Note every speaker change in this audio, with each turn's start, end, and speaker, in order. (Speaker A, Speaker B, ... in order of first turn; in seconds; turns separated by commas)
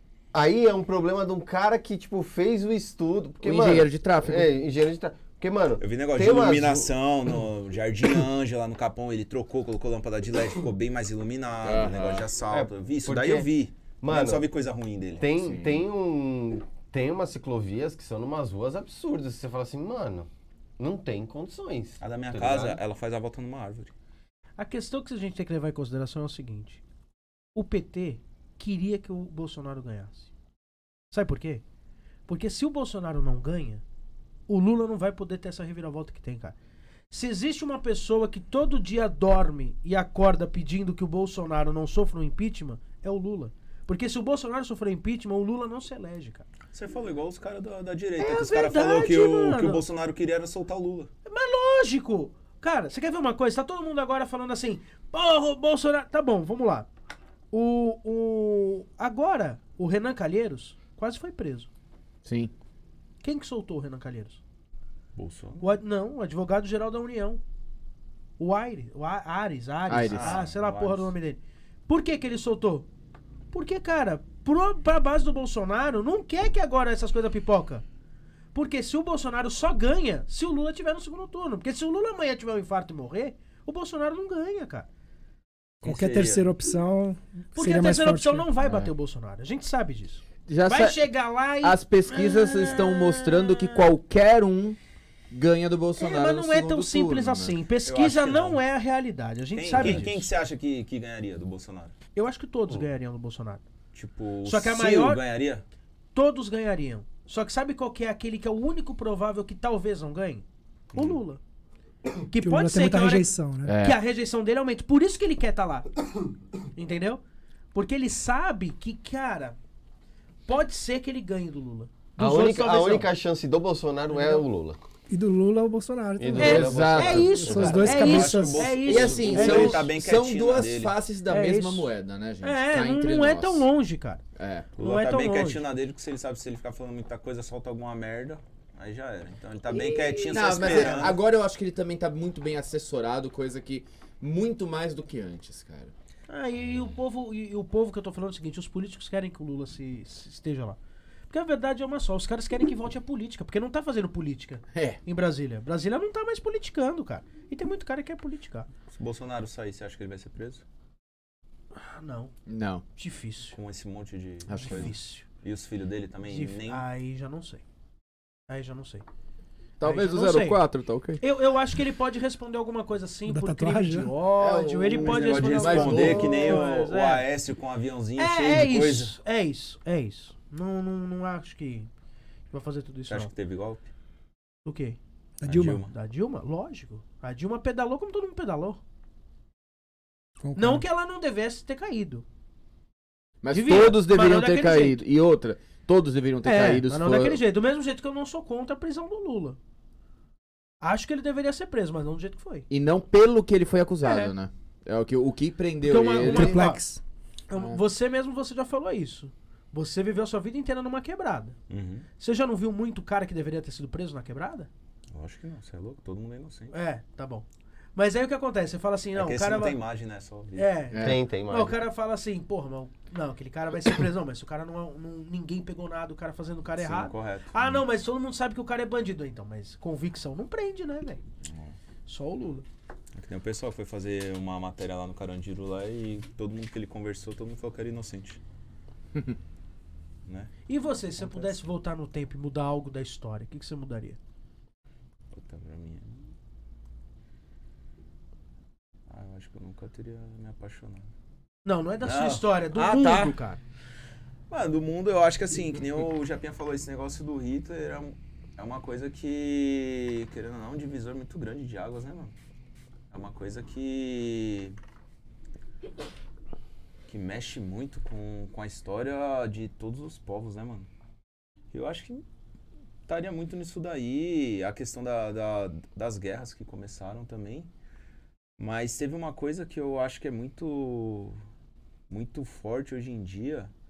Speaker A: 0.3-6.9, Speaker B: 3.4-4.5, Speaker C: 5.8-15.2, Speaker B: 11.6-12.3, Speaker A: 12.5-13.5, Speaker A: 14.0-14.5, Speaker A: 15.2-22.8, Speaker B: 15.4-15.8, Speaker C: 22.0-23.9, Speaker D: 24.6-26.8, Speaker D: 27.6-30.3, Speaker D: 31.1-31.6, Speaker D: 32.3-33.8, Speaker D: 34.5-36.6, Speaker D: 37.1-46.5, Speaker C: 46.7-51.1, Speaker D: 48.2-49.8, Speaker D: 51.2-56.9, Speaker D: 57.5-61.7, Speaker B: 62.2-62.5, Speaker D: 63.2-64.4, Speaker C: 65.2-65.7, Speaker D: 65.6-67.4, Speaker D: 68.4-72.9, Speaker B: 69.9-70.4, Speaker C: 70.1-71.1, Speaker D: 73.5-77.8, Speaker D: 78.5-84.9, Speaker C: 85.8-86.5, Speaker E: 85.8-88.5, Speaker D: 87.6-93.9, Speaker B: 90.5-91.1, Speaker B: 91.6-94.8, Speaker B: 95.3-97.6, Speaker D: 96.0-100.3, Speaker C: 97.8-98.6, Speaker C: 99.5-101.9, Speaker B: 99.8-100.0, Speaker D: 102.2-103.6, Speaker C: 103.9-105.6, Speaker D: 104.5-105.2, Speaker D: 106.1-111.4, Speaker C: 110.9-111.2, Speaker D: 112.3-115.9, Speaker E: 112.4-113.8, Speaker B: 113.7-114.0, Speaker D: 116.8-117.2, Speaker D: 117.7-119.6, Speaker D: 120.5-123.1, Speaker A: 122.2-124.8, Speaker D: 124.1-124.4, Speaker E: 125.1-128.8, Speaker A: 126.2-128.2, Speaker D: 126.3-129.8, Speaker B: 126.4-127.5, Speaker C: 127.9-130.9, Speaker B: 128.8-133.7, Speaker D: 131.3-131.9, Speaker D: 132.4-134.2, Speaker B: 134.3-134.7, Speaker C: 134.8-141.2, Speaker D: 134.8-135.6, Speaker B: 140.2-145.9, Speaker D: 140.6-141.0, Speaker D: 146.3-150.8, Speaker D: 151.3-158.7, Speaker B: 154.7-155.0, Speaker C: 158.9-160.6, Speaker D: 161.7-162.3, Speaker B: 162.5-162.8, Speaker D: 163.0-163.6, Speaker C: 163.5-166.8, Speaker B: 164.5-164.9, Speaker D: 164.5-165.2, Speaker D: 166.2-167.6, Speaker D: 168.5-169.0, Speaker B: 169.8-171.2, Speaker D: 169.8-170.6, Speaker D: 171.2-177.3, Speaker E: 173.3-174.1, Speaker B: 174.4-176.6, Speaker C: 175.0-179.2, Speaker D: 178.2-181.9, Speaker D: 182.5-183.3, Speaker C: 183.1-183.9, Speaker D: 184.7-185.0, Speaker E: 185.4-185.8, Speaker C: 185.4-185.9, Speaker D: 185.9-188.8, Speaker E: 190.4-190.8, Speaker D: 190.6-192.2, Speaker B: 193.4-197.4, Speaker D: 193.5-195.0, Speaker D: 196.4-199.6, Speaker D: 200.8-202.7, Speaker B: 202.7-206.6, Speaker D: 204.1-204.3, Speaker D: 205.8-206.8, Speaker E: 206.2-207.0, Speaker D: 207.5-211.6, Speaker B: 207.5-207.8, Speaker C: 211.7-212.1, Speaker D: 212.2-214.7, Speaker C: 215.1-216.7, Speaker D: 216.7-219.8, Speaker C: 219.2-220.7, Speaker D: 220.6-231.2, Speaker B: 220.9-221.2, Speaker A: 221.0-221.8, Speaker C: 226.8-227.8, Speaker C: 231.4-231.7, Speaker D: 232.1-232.7, Speaker C: 233.2-238.4, Speaker C: 240.3-240.5, Speaker D: 240.7-244.2, Speaker C: 241.2-241.5, Speaker C: 245.3-246.3, Speaker C: 249.1-251.1, Speaker D: 251.7-253.6, Speaker C: 252.0-253.4, Speaker C: 254.5-262.3, Speaker C: 263.1-264.8, Speaker C: 267.1-270.9, Speaker C: 271.7-272.2, Speaker C: 273.1-277.7, Speaker C: 278.6-281.4, Speaker C: 282.1-283.7